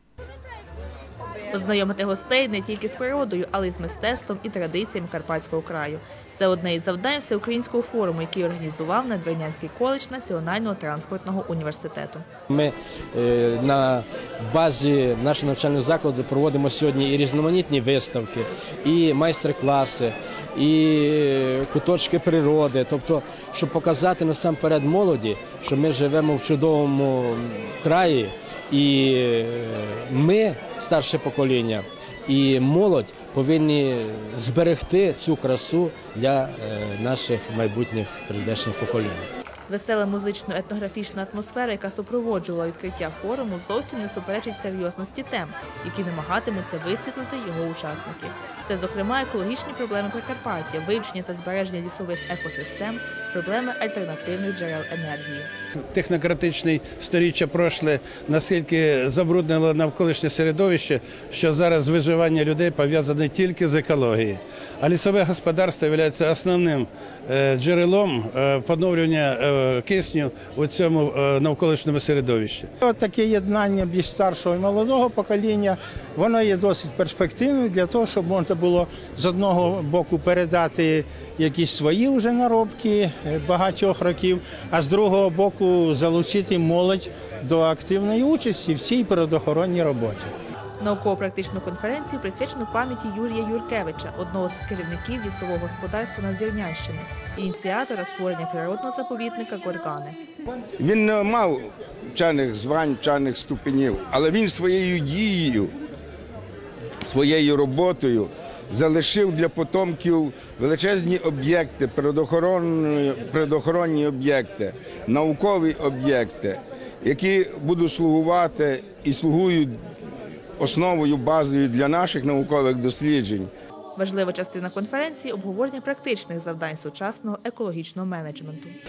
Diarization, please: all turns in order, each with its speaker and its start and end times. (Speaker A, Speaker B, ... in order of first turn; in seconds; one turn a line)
Speaker A: 1.5-12.2
Speaker B: 12.5-39.3
Speaker A: 39.7-55.5
Speaker C: 55.9-72.7
Speaker D: 72.8-90.3
Speaker A: 90.8-100.2
Speaker E: 100.8-105.7
Speaker E: 107.0-119.8
Speaker E: 120.6-123.5
Speaker A: 124.0-128.8